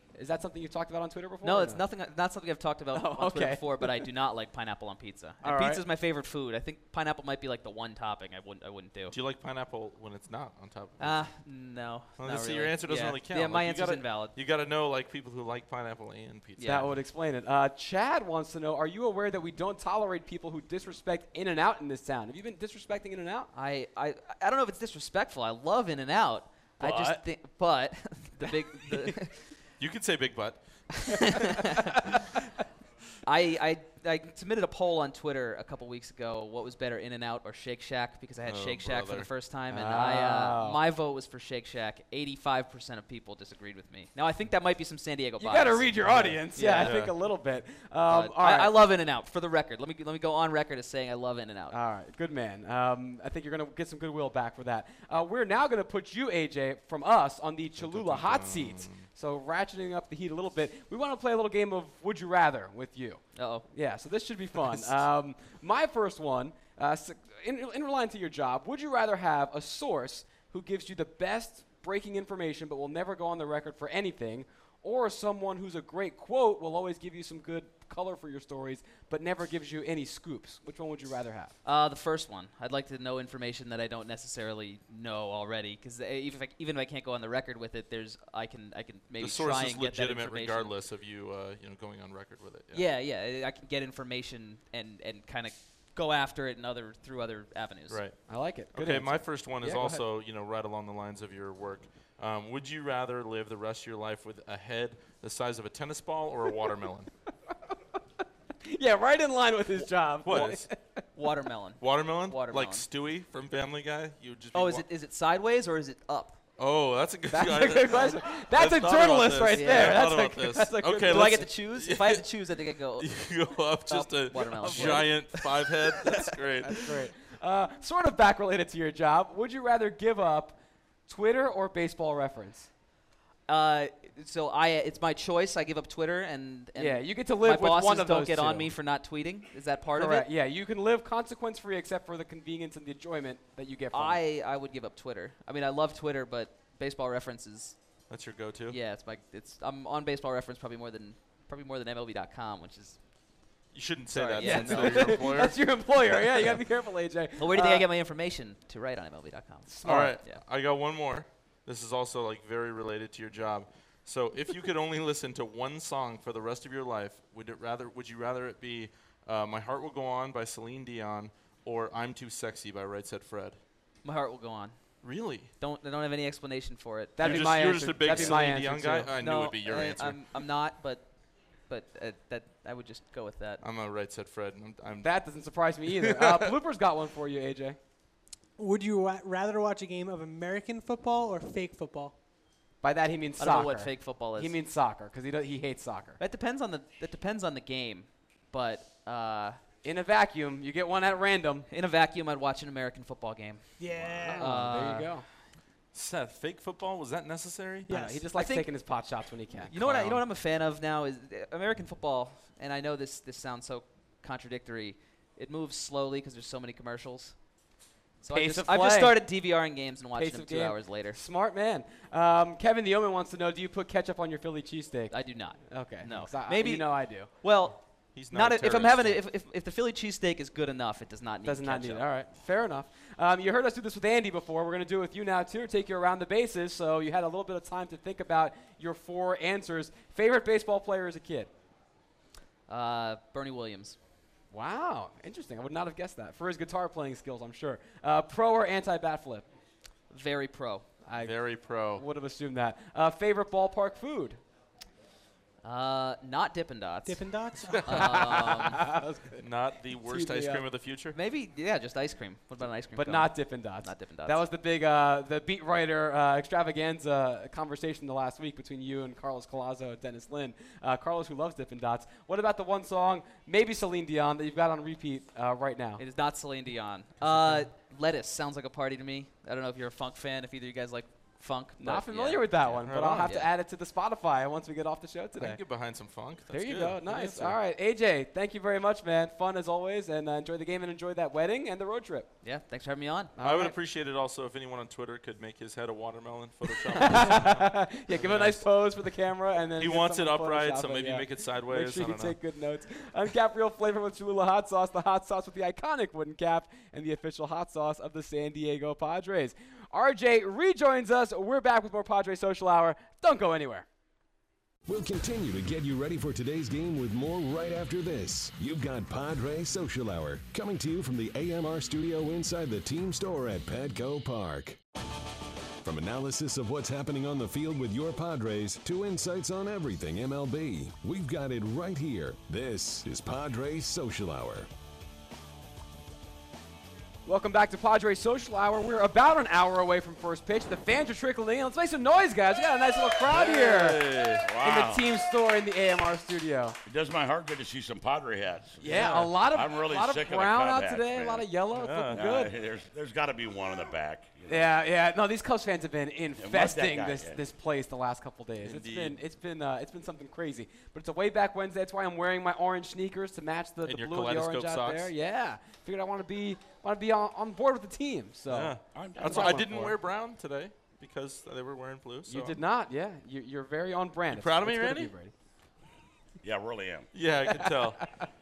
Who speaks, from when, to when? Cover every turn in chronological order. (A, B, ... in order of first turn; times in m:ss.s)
0:00.1-0:01.8 A
0:01.4-0:09.2 B
0:02.9-0:04.1 A
0:05.4-0:05.8 A
0:09.1-0:11.5 C
0:11.0-0:14.3 B
0:12.2-0:16.9 C
0:16.6-0:16.9 B
0:16.6-0:23.5 A
0:23.5-0:29.6 B
0:26.8-0:27.1 A
0:26.8-0:27.2 C
0:29.8-0:32.1 C
0:31.0-0:32.0 B
0:33.2-0:45.9 B
0:38.4-0:39.3 C
0:39.7-0:40.8 A
0:45.4-0:48.7 A
0:46.0-0:47.1 C
0:46.5-0:47.1 B
0:48.0-0:51.8 B
0:51.7-1:21.5 A
0:57.8-0:59.0 C
1:03.4-1:03.6 B
1:21.6-1:30.7 B
1:29.2-1:32.8 C
1:32.7-1:38.1 B
1:37.9-1:47.1 C
1:38.3-1:40.0 A
1:48.6-1:51.0 A
1:49.8-1:50.7 C
1:51.1-1:52.8 B
1:51.8-1:54.8 C
1:54.5-1:56.4 B
1:56.6-2:02.3 C
1:57.3-2:01.5 A
1:59.5-2:00.2 B
2:01.0-2:06.2 B
2:03.0-2:07.0 C
2:04.7-2:05.1 A
2:06.6-2:12.7 A
2:13.5-2:20.3 B
2:16.8-2:18.7 A
2:19.9-2:24.2 A
2:23.9-2:33.0 B
2:28.1-2:28.8 C
2:33.7-2:36.5 C
2:34.1-2:37.8 A
2:34.3-2:35.4 B
2:37.4-2:40.4 B
2:39.7-2:40.2 A
2:39.8-2:53.6 C
2:54.0-2:58.4 B
2:55.0-2:55.5 C
2:57.2-2:59.1 A
2:57.2-3:00.2 C
2:59.2-3:03.6 B
3:03.6-3:05.6 C
3:05.0-3:07.8 A
3:08.6-3:12.2 D
3:12.8-3:16.2 A
3:13.4-3:14.5 B
3:16.2-3:19.6 B
3:19.8-3:21.7 A
3:21.7-3:25.2 B
3:23.8-3:24.5 D
3:24.2-3:25.3 A
3:25.9-3:28.1 C
3:27.9-3:29.7 A
3:27.9-3:29.2 B
3:29.7-3:41.2 B
3:29.7-3:30.2 C
3:38.3-3:39.6 A
3:40.1-3:47.3 A
3:45.1-3:52.0 B
3:47.4-3:49.2 C
3:51.4-4:01.5 A
4:02.7-4:04.0 B
4:04.5-4:09.5 A
4:10.1-4:10.9 B
4:11.0-4:14.4 A
4:11.1-4:12.0 C
4:15.6-4:18.8 B
4:17.0-4:18.4 D
4:17.6-4:18.6 C
4:17.9-4:19.4 A
4:19.4-4:21.2 C
4:20.0-4:20.6 A
4:21.1-4:24.4 B
4:22.9-4:36.0 A
4:36.0-4:43.5 B
4:37.2-4:37.6 C
4:41.8-4:45.6 A
4:42.8-4:43.3 C
4:45.4-4:47.6 C
4:46.5-4:52.3 A
4:52.4-4:53.3 B
4:53.4-4:53.8 A
4:53.4-4:58.6 C
4:57.0-5:13.8 A
4:59.8-5:02.4 C
5:14.9-5:24.8 E
5:25.8-5:34.7 E
5:37.2-5:46.8 A
5:43.3-5:44.4 C
5:44.4-5:45.1 F
5:46.8-5:51.5 F
5:48.8-5:49.3 C
5:48.8-5:52.5 A
5:51.7-5:52.2 C
5:52.1-5:54.7 F
5:54.5-6:09.9 A
5:56.4-5:57.4 F
5:58.6-5:59.2 C
6:03.8-6:05.1 C
6:08.5-6:12.6 C
6:08.9-6:09.8 F
6:12.3-6:15.3 A
6:14.3-6:15.1 C
6:16.4-6:17.1 F
6:17.1-6:18.1 C